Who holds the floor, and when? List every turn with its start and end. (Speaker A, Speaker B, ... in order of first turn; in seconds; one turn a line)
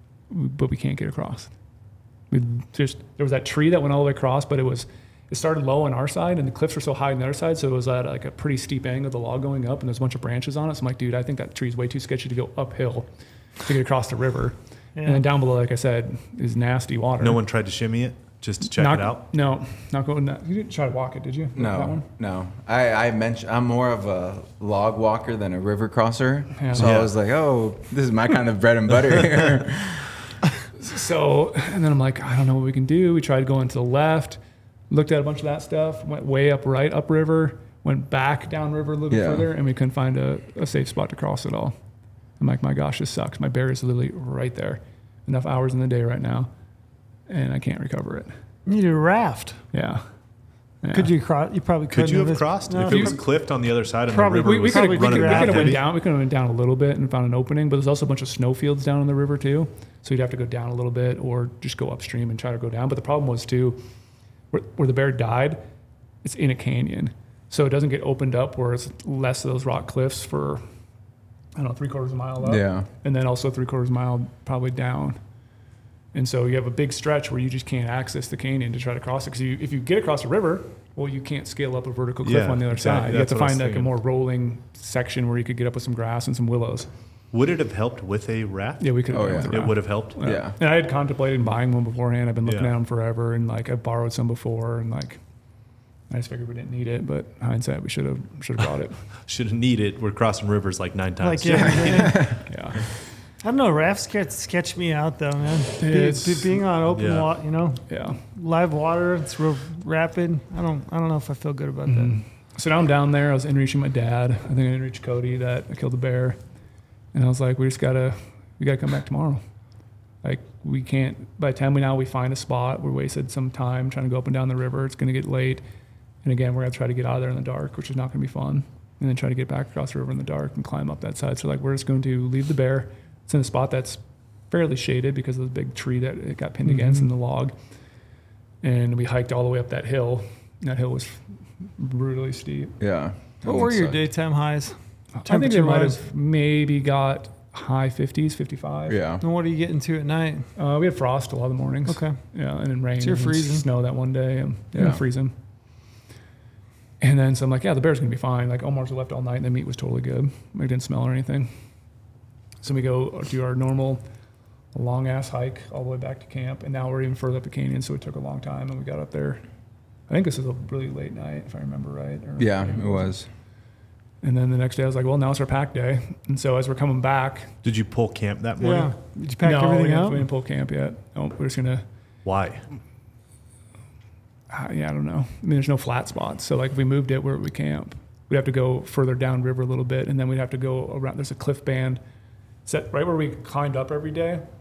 Speaker A: 0.3-1.5
Speaker A: 2.3-13.1
Speaker A: 13.6-17.4
Speaker B: 14.9-15.2
Speaker C: 17.2-19.2
Speaker A: 18.7-22.0
Speaker D: 21.6-30.1
Speaker A: 26.6-26.9
Speaker C: 26.8-27.1
Speaker A: 30.8-34.4
Speaker A: 34.9-41.8
Speaker D: 39.1-39.5
Speaker A: 42.4-46.5
Speaker A: 47.3-48.3
Speaker B: 48.6-49.6
Speaker A: 49.7-50.0
Speaker A: 50.8-51.1
Speaker B: 50.9-53.2
Speaker C: 51.9-55.8
Speaker A: 52.8-53.2
Speaker B: 54.1-55.8
Speaker A: 54.4-63.8
Speaker A: 64.5-65.6
Speaker A: 66.2-70.6
Speaker A: 71.5-75.2
Speaker D: 72.4-72.9
Speaker A: 76.1-86.9
Speaker C: 82.2-83.9
Speaker C: 87.3-90.2
Speaker A: 88.8-95.2
Speaker D: 89.1-89.5
Speaker D: 90.2-90.5
Speaker C: 92.5-92.7
Speaker A: 96.1-99.0
Speaker C: 99.2-102.3
Speaker B: 101.2-102.4
Speaker A: 102.5-102.8
Speaker B: 103.4-112.2
Speaker A: 105.8-106.6
Speaker C: 106.9-107.3
Speaker A: 107.9-108.2
Speaker A: 111.9-116.4
Speaker A: 117.1-119.4
Speaker A: 120.2-125.6
Speaker A: 126.2-137.5
Speaker A: 138.6-141.2
Speaker A: 141.8-142.8
Speaker D: 142.8-144.0
Speaker B: 143.4-144.7
Speaker A: 145.2-149.0
Speaker B: 145.2-146.0
Speaker D: 148.9-149.2
Speaker B: 149.2-150.5
Speaker A: 150.6-155.3
Speaker B: 151.9-152.2
Speaker B: 153.0-153.7
Speaker D: 154.7-155.0
Speaker A: 157.0-161.5
Speaker A: 162.6-164.0
Speaker A: 164.7-169.4
Speaker A: 170.1-173.1
Speaker D: 172.4-173.3
Speaker A: 174.2-177.5
Speaker C: 177.6-178.9
Speaker B: 178.6-180.3
Speaker A: 179.4-181.8
Speaker C: 182.2-182.7
Speaker A: 184.5-192.0
Speaker A: 192.7-194.4